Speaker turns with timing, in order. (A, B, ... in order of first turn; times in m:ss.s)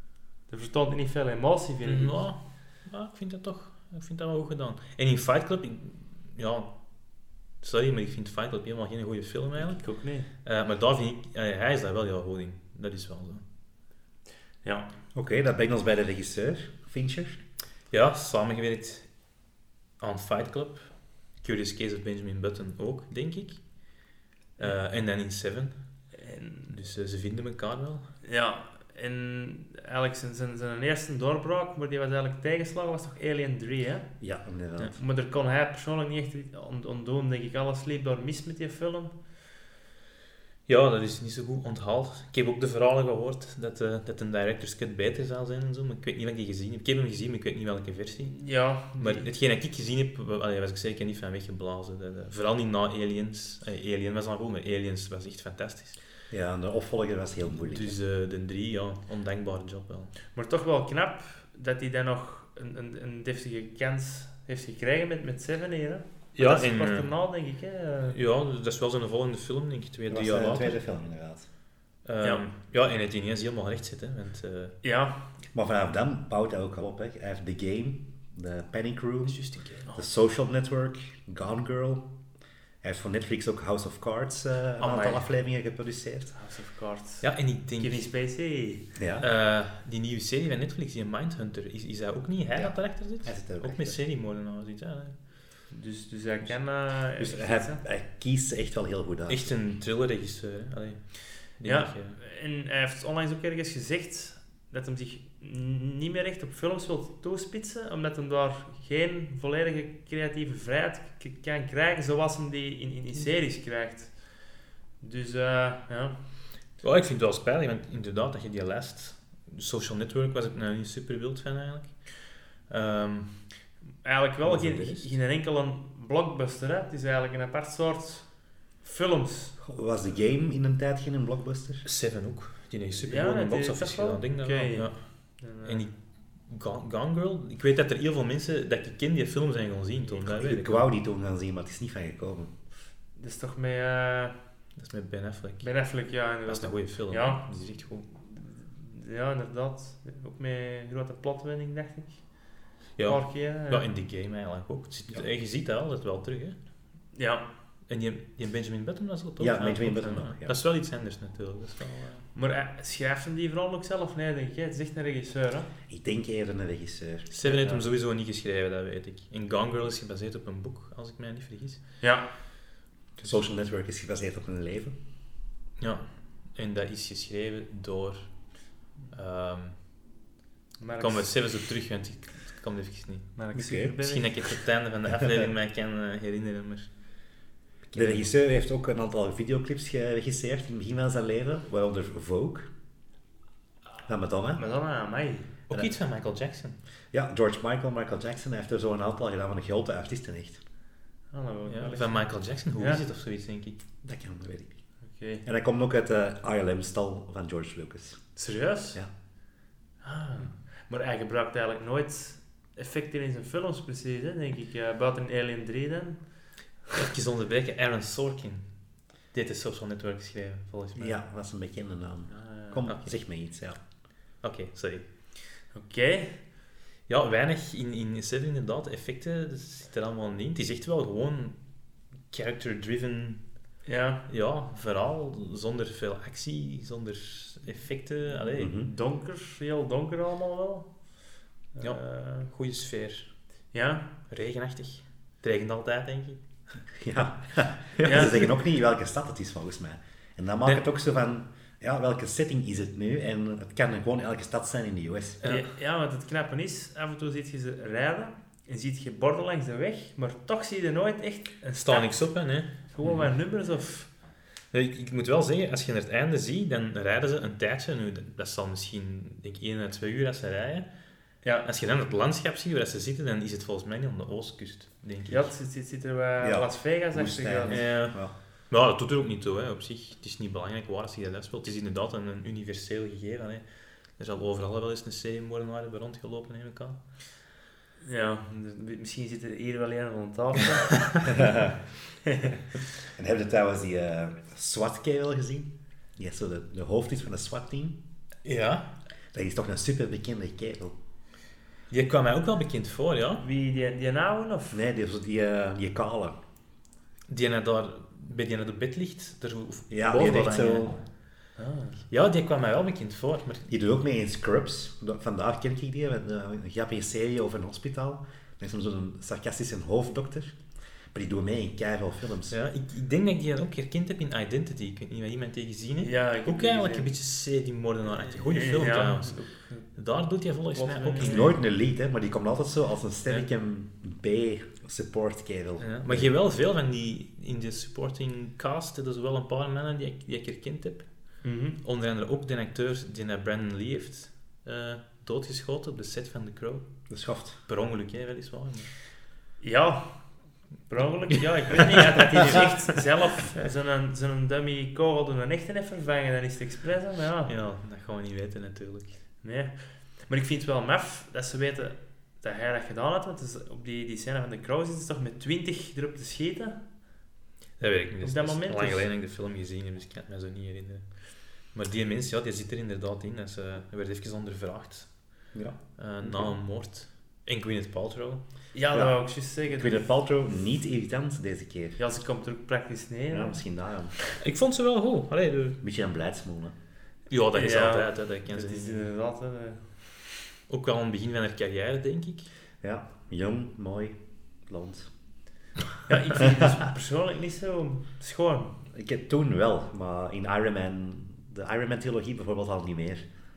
0:00.5-0:02.2 A
0:01.8-0:13.4 B
0:09.6-0:10.3 A
0:14.6-0:14.9 A
0:15.1-0:17.4 C
0:17.9-0:19.1 B
0:20.0-0:24.0 B
0:24.6-0:25.8 B
0:26.1-0:26.7 A
0:26.7-0:28.1 B
0:28.2-0:34.1 A
0:34.2-0:35.0 C
0:35.0-0:39.2 A
0:40.7-0:56.0 B
0:48.2-0:49.3 A
0:56.3-0:58.0 C
0:57.5-1:00.2 B
1:00.3-1:08.2 A
1:06.4-1:07.1 B
1:08.1-1:10.8 B
1:10.1-1:11.5 C
1:12.0-1:14.8 B
1:14.8-1:15.2 A
1:15.5-1:22.1 C
1:19.3-1:19.8 B
1:22.8-1:26.3 C
1:24.8-1:25.2 A
1:26.4-1:28.9 A
1:27.2-1:28.1 B
1:29.0-1:29.3 C
1:29.2-1:35.2 B
1:32.5-1:34.0 C
1:35.7-1:37.8 A
1:37.2-1:39.5 C
1:39.3-1:42.2 B
1:41.6-1:56.2 A
1:56.8-2:03.6 B
2:04.0-2:09.6 A
2:04.4-2:05.1 B
2:09.6-2:11.9 C
2:11.8-2:20.9 B
2:13.1-2:15.8 A
2:20.2-2:22.5 C
2:23.2-2:24.4 A
2:24.8-2:28.1 B
2:25.6-2:27.4 A
2:28.1-2:32.5 A
2:33.0-2:36.6 B
2:33.0-2:33.9 A
2:37.1-2:37.5 A
2:37.9-2:42.3 B
2:39.4-2:40.6 C
2:42.4-2:45.7 A
2:45.9-2:47.3 C
2:47.3-2:51.8 B
2:47.5-2:47.8 A
2:52.0-2:52.3 A
2:53.2-2:55.0 C
2:55.8-2:58.5 B
2:59.1-2:59.8 B
3:00.8-3:01.3 A
3:01.0-3:03.4 B
3:03.4-3:04.3 A
3:03.5-3:04.0 C
3:04.0-3:06.9 B
3:07.9-3:12.7 C
3:07.9-3:08.3 B
3:14.1-3:14.6 C
3:14.6-3:15.5 A
3:15.7-3:16.8 B
3:17.1-3:20.6 C
3:21.3-3:23.0 A
3:21.7-3:23.8 B
3:24.0-3:24.8 C
3:25.1-3:25.4 A
3:25.4-3:28.4 C
3:28.4-3:29.0 A
3:30.0-3:36.3 A
3:36.9-3:41.2 B
3:41.0-3:43.8 C
3:42.3-3:42.9 A
3:42.8-3:43.1 B
3:44.4-3:45.3 B
3:45.7-3:46.4 A
3:47.1-3:51.6 B
3:52.3-3:53.5 B
3:53.8-3:54.2 A
3:54.3-3:58.8 B
3:58.6-3:58.9 C
3:58.7-4:01.0 A
4:01.8-4:02.5 A
4:01.8-4:03.3 B
4:03.7-4:04.1 A
4:04.3-4:06.4 B
4:07.0-4:15.4 C
4:08.0-4:08.5 B
4:08.0-4:08.5 A
4:15.4-4:15.7 B
4:15.4-4:24.1 A
4:21.8-4:22.8 B
4:24.7-4:30.9 B
4:31.6-4:35.5 B
4:35.3-4:37.8 A
4:36.4-4:38.3 C
4:37.7-4:47.0 B
4:48.0-4:51.4 A
4:51.3-4:51.8 C
4:52.3-4:52.6 A
4:53.1-4:58.0 C
4:58.4-4:58.9 B
4:59.3-5:01.0 C
5:01.9-5:03.4 B
5:03.4-5:04.8 A
5:04.7-5:06.4 C
5:07.3-5:11.0 B
5:09.9-5:11.0 C
5:11.6-5:12.0 A
5:12.1-5:13.7 B
5:13.7-5:20.6 C
5:21.1-5:22.6 C
5:22.5-5:29.4 B
5:26.0-5:27.1 A
5:28.3-5:29.9 A
5:29.9-5:31.5 B
5:30.7-5:31.5 A
5:31.2-5:36.3 C
5:35.8-5:47.1 B
5:41.4-5:41.8 A
5:47.1-5:47.6 C
5:47.7-5:49.0 B
5:49.6-5:50.3 A
5:50.9-5:57.5 A
5:57.4-5:59.2 B
5:59.4-6:06.8 A
6:07.8-6:18.4 B
6:08.2-6:09.1 A
6:15.5-6:16.6 C
6:18.7-6:20.1 A
6:18.9-6:22.0 C
6:22.0-6:23.6 A
6:23.3-6:24.2 C
6:24.4-6:25.8 B
6:25.8-6:26.8 C
6:27.3-6:29.1 B
6:27.5-6:29.9 A
6:30.7-6:32.5 B
6:32.8-6:35.1 C
6:36.1-6:38.8 A
6:38.9-6:43.2 C